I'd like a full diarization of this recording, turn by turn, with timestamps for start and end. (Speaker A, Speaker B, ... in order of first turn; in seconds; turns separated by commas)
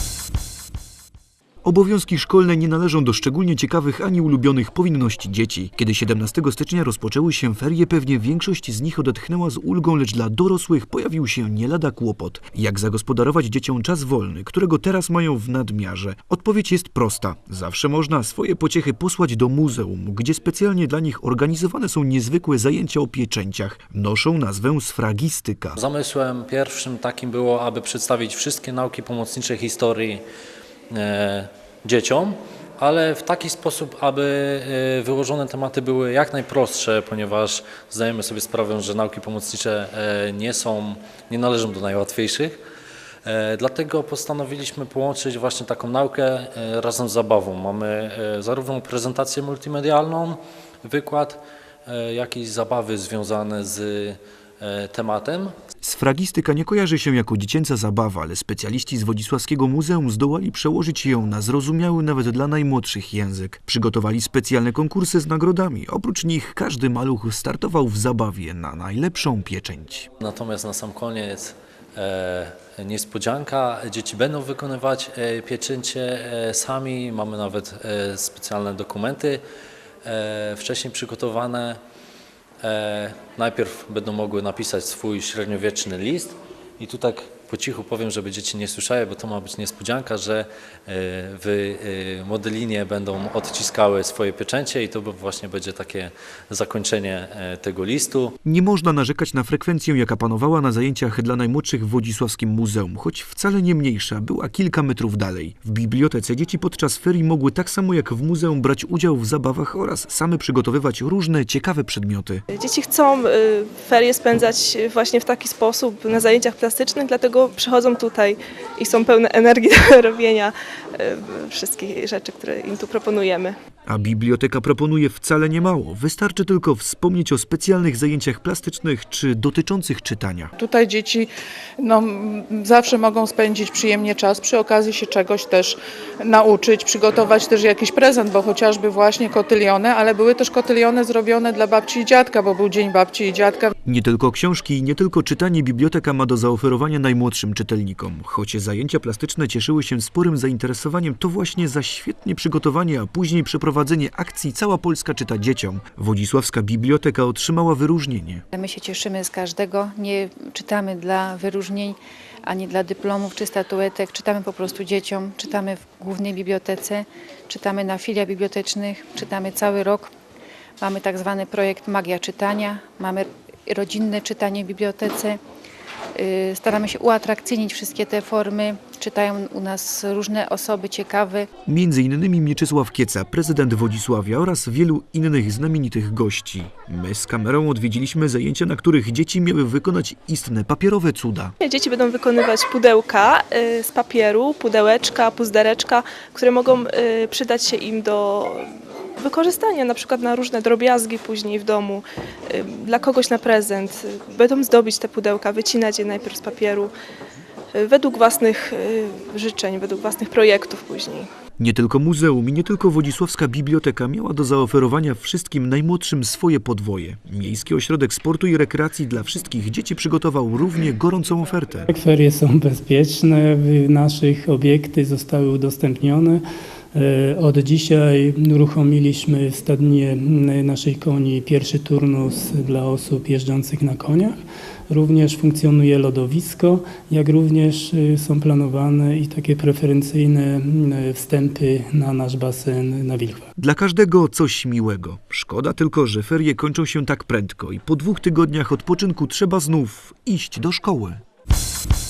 Speaker A: 1.6-25.8, Speaker B: 25.8-30.2, Speaker B: 31.0-42.6, Speaker B: 43.2-55.5, Speaker A: 55.8-70.1, Speaker B: 70.2-79.4, Speaker B: 80.0-81.8, Speaker B: 82.6-98.3, Speaker A: 98.4-112.4, Speaker C: 112.5-123.6, Speaker A: 123.9-130.5, Speaker D: 130.6-143.7, Speaker A: 143.8-158.4, Speaker E: 158.5-170.1, Speaker E: 170.8-175.4, Speaker E: 176.2-181.5, Speaker A: 181.7-191.6, Speaker C: 191.6-206.9, Speaker C: 207.7-211.3, Speaker A: 211.6-221.9, Speaker F: 221.9-226.4, Speaker F: 226.9-234.4, Speaker F: 234.9-243.5, Speaker A: 243.6-251.2